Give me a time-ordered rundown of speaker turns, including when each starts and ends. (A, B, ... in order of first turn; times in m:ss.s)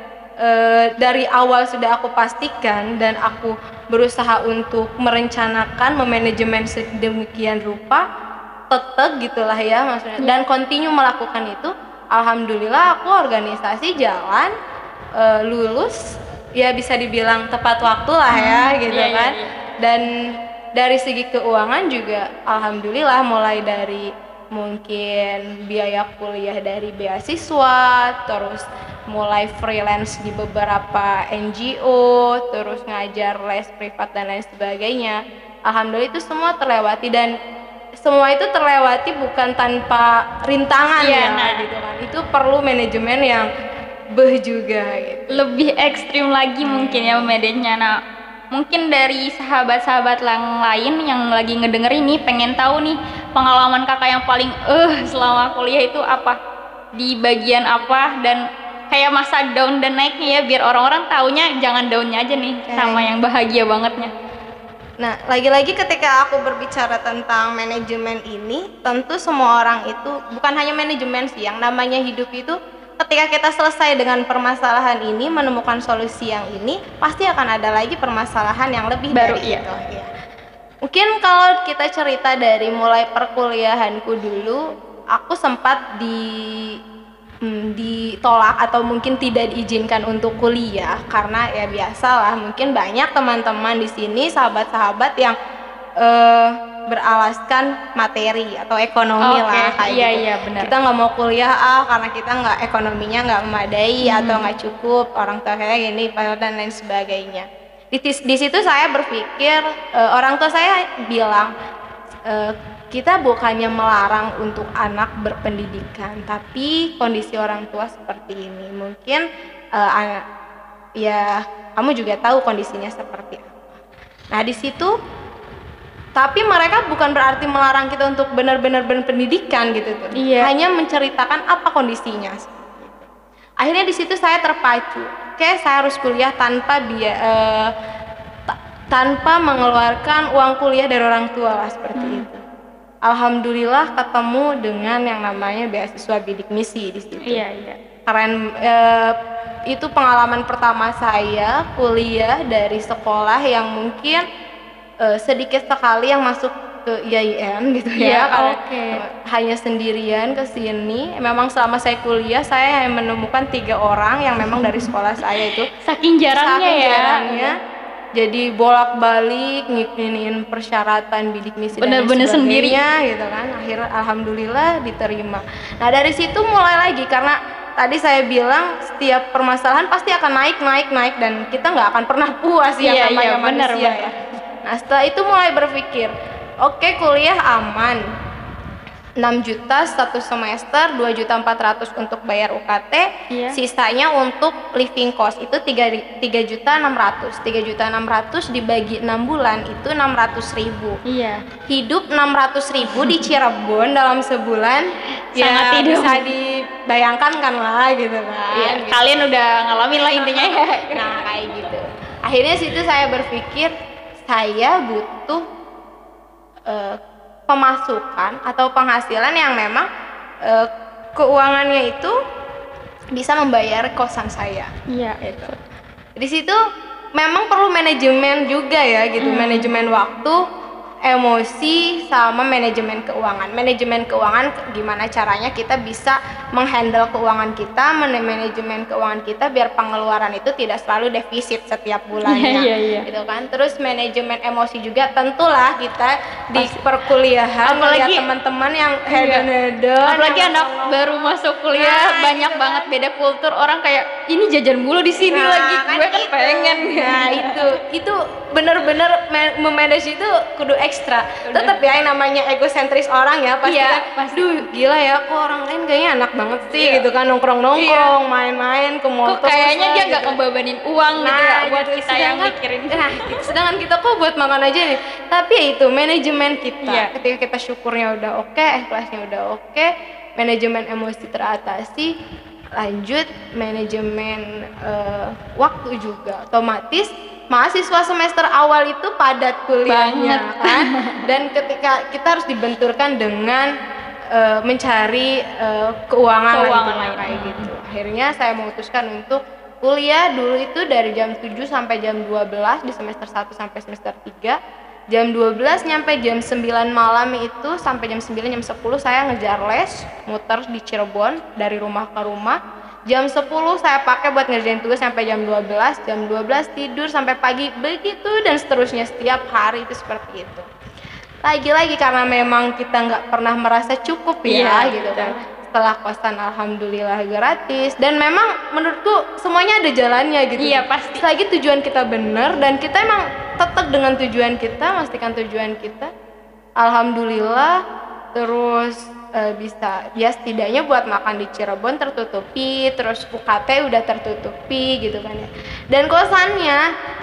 0:00.4-0:08.0 A
0:08.7-0:14.5 A
0:15.2-0:16.0 A
0:16.6-0:20.1 A
0:18.3-0:19.5 B
0:20.8-0:37.3 A
0:38.0-0:43.5 A
0:41.0-0:41.6 B
0:44.2-0:45.5 A
0:45.3-0:47.9 B
0:46.6-0:47.3 A
0:48.5-0:56.4 B
0:57.0-1:04.1 B
1:02.7-1:03.1 A
1:05.0-1:20.1 A
1:19.1-1:19.6 B
1:20.9-1:24.6 A
1:25.2-1:26.7 A
1:27.4-1:35.4 A
1:36.0-1:51.5 A
1:39.2-1:40.7 B
1:44.0-1:44.5 B
1:52.3-1:59.2 A
1:59.8-2:00.2 A
2:01.0-2:03.6 A
2:04.3-2:04.9 A
2:06.2-2:13.1 A
2:10.2-2:10.5 B
2:13.6-2:17.7 A
2:18.5-2:22.4 A
2:22.0-2:22.3 B
2:23.1-2:27.4 A
2:27.2-2:27.8 B
2:28.1-2:29.1 A
2:29.7-2:34.2 A
2:35.0-2:45.7 A
2:38.0-2:39.0 B
2:45.8-2:47.5 B
2:46.3-2:47.5 A
2:48.2-3:04.1 A
2:51.8-2:52.8 B
3:02.8-3:04.2 B
3:04.6-3:08.0 A
3:09.2-3:21.0 A
3:13.3-3:13.6 B
3:21.1-3:21.4 B
3:21.7-3:29.0 A
3:22.9-3:23.2 B
3:25.3-3:26.3 B
3:28.5-3:31.7 B
3:30.1-3:33.7 A
3:34.2-3:35.4 A
3:36.7-3:37.0 A
3:37.5-3:39.9 A
3:40.5-3:42.1 A
3:43.2-3:44.7 A
3:44.9-3:45.6 B
3:45.2-3:45.5 A
3:46.2-3:46.6 A
3:47.2-3:50.4 A
3:49.2-3:49.7 B
3:51.1-4:10.9 A
4:02.2-4:03.1 B
4:07.6-4:08.3 B
4:09.1-4:09.5 B
4:10.0-4:17.6 B
4:11.8-4:12.9 A
4:15.2-4:30.4 A
4:21.5-4:21.8 B
4:23.6-4:24.5 B
4:26.7-4:27.0 B
4:27.8-4:28.1 B
4:29.2-4:33.5 B
4:31.2-4:42.1 A
4:36.8-4:37.1 B
4:42.8-4:53.7 A
4:49.9-4:51.2 B
4:54.3-5:04.6 A
4:56.5-4:57.7 B
5:05.1-5:20.7 A
5:21.4-5:36.1 A
5:24.5-5:25.4 B
5:30.6-5:31.2 B
5:36.8-5:37.8 A
5:38.4-5:46.8 A